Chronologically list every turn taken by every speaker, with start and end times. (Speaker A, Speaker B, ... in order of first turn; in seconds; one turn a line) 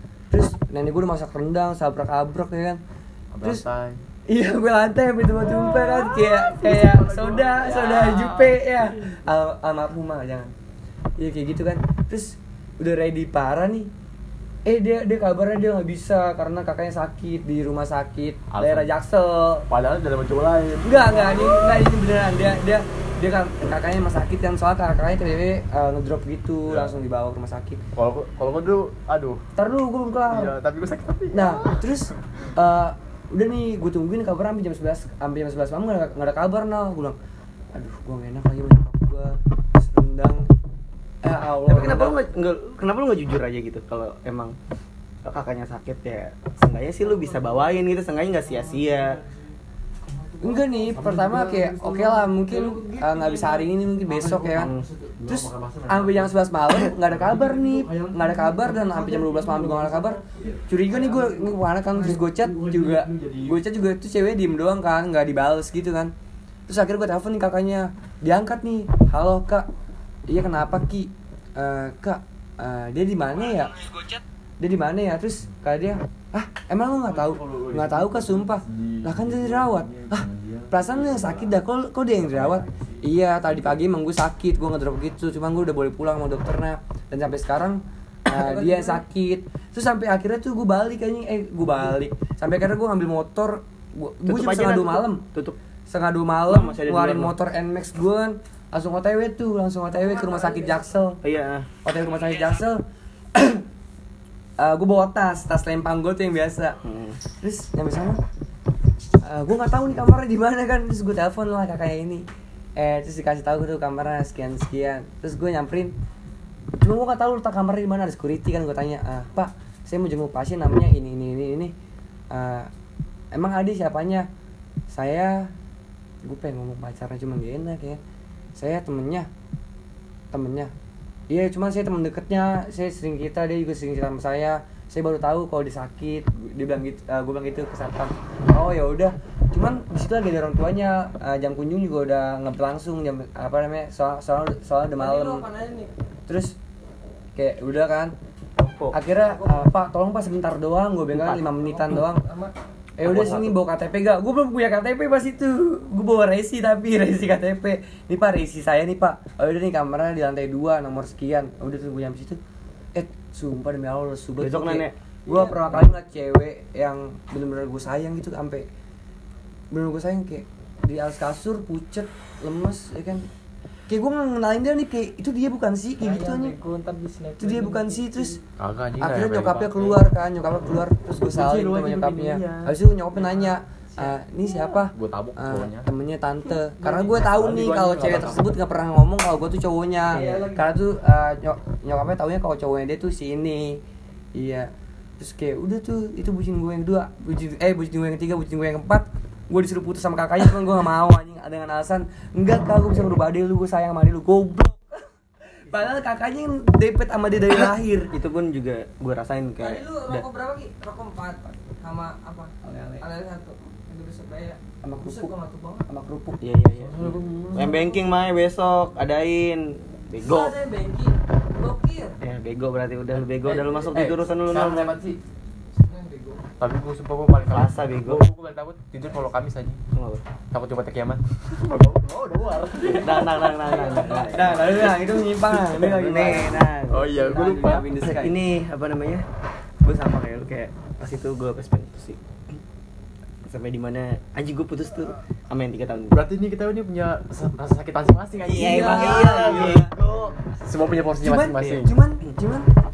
Speaker A: 0.3-2.8
Speaker B: 3.3-4.0
Speaker A: 4.3-10.5
Speaker B: 5.4-9.2
Speaker A: 11.2-13.9
Speaker A: 14.7-19.7
Speaker B: 18.5-18.9
Speaker B: 19.7-21.8
Speaker A: 20.8-27.8
Speaker B: 26.7-26.9
Speaker B: 27.9-29.4
Speaker A: 29.6-30.5
Speaker B: 30.3-32.0
Speaker A: 31.3-37.2
Speaker A: 37.7-40.5
Speaker A: 41.2-42.2
Speaker C: 41.7-44.5
Speaker C: 45.2-49.2
Speaker B: 48.5-49.5
Speaker B: 50.1-63.6
Speaker A: 50.4-54.7
Speaker A: 55.2-66.1
Speaker A: 66.7-69.7
Speaker A: 70.3-95.2
Speaker B: 77.0-81.6
Speaker B: 82.1-83.8
Speaker D: 88.3-89.0
Speaker C: 94.3-95.6
Speaker A: 95.9-101.2
Speaker C: 96.5-97.3
Speaker D: 100.0-100.9
Speaker C: 101.2-101.7
Speaker A: 101.8-102.8
Speaker A: 103.3-103.6
Speaker A: 104.6-106.8
Speaker C: 106.8-107.2
Speaker A: 107.3-108.2
Speaker A: 109.2-112.2
Speaker A: 112.8-115.9
Speaker A: 116.8-121.7
Speaker A: 122.3-122.7
Speaker A: 123.3-124.3
Speaker A: 124.9-125.5
Speaker A: 126.2-128.0
Speaker A: 128.6-129.3
Speaker A: 130.3-130.7
Speaker A: 131.3-145.5
Speaker D: 145.0-145.9
Speaker A: 146.3-146.6
Speaker A: 147.3-148.1
Speaker C: 148.6-148.9
Speaker A: 148.9-152.2
Speaker D: 149.2-149.7
Speaker C: 151.1-152.0
Speaker D: 151.4-152.5
Speaker A: 153.0-162.4
Speaker C: 153.0-153.6
Speaker A: 162.9-168.7
Speaker C: 164.4-164.9
Speaker D: 165.2-165.9
Speaker A: 169.7-173.3
Speaker A: 173.9-176.5
Speaker D: 176.0-178.4
Speaker A: 177.4-178.4
Speaker B: 178.6-180.1
Speaker A: 179.0-193.8
Speaker B: 181.2-182.7
Speaker D: 183.1-184.9
Speaker B: 184.9-185.9
Speaker B: 186.8-188.6
Speaker D: 190.1-190.7
Speaker B: 190.1-190.5
Speaker A: 194.3-204.8
Speaker A: 205.5-208.1
Speaker C: 207.5-210.2
Speaker D: 209.6-215.9
Speaker A: 212.6-213.0
Speaker A: 214.8-215.3
Speaker A: 215.9-216.4
Speaker C: 216.4-220.6
Speaker B: 216.8-218.0
Speaker D: 217.6-217.9
Speaker D: 220.2-222.1
Speaker C: 222.2-225.0
Speaker B: 223.1-225.2
Speaker D: 225.8-226.4
Speaker B: 226.6-229.8
Speaker C: 227.4-228.2
Speaker C: 229.9-230.2
Speaker B: 230.5-235.0
Speaker C: 232.8-234.7
Speaker D: 233.7-234.6
Speaker A: 234.2-238.4
Speaker C: 235.7-237.2
Speaker B: 236.9-238.1
Speaker C: 238.0-239.2
Speaker C: 239.8-242.2
Speaker C: 243.4-246.2
Speaker B: 246.1-249.8
Speaker C: 248.4-250.4
Speaker A: 248.5-249.9
Speaker B: 250.6-251.9
Speaker A: 251.2-252.7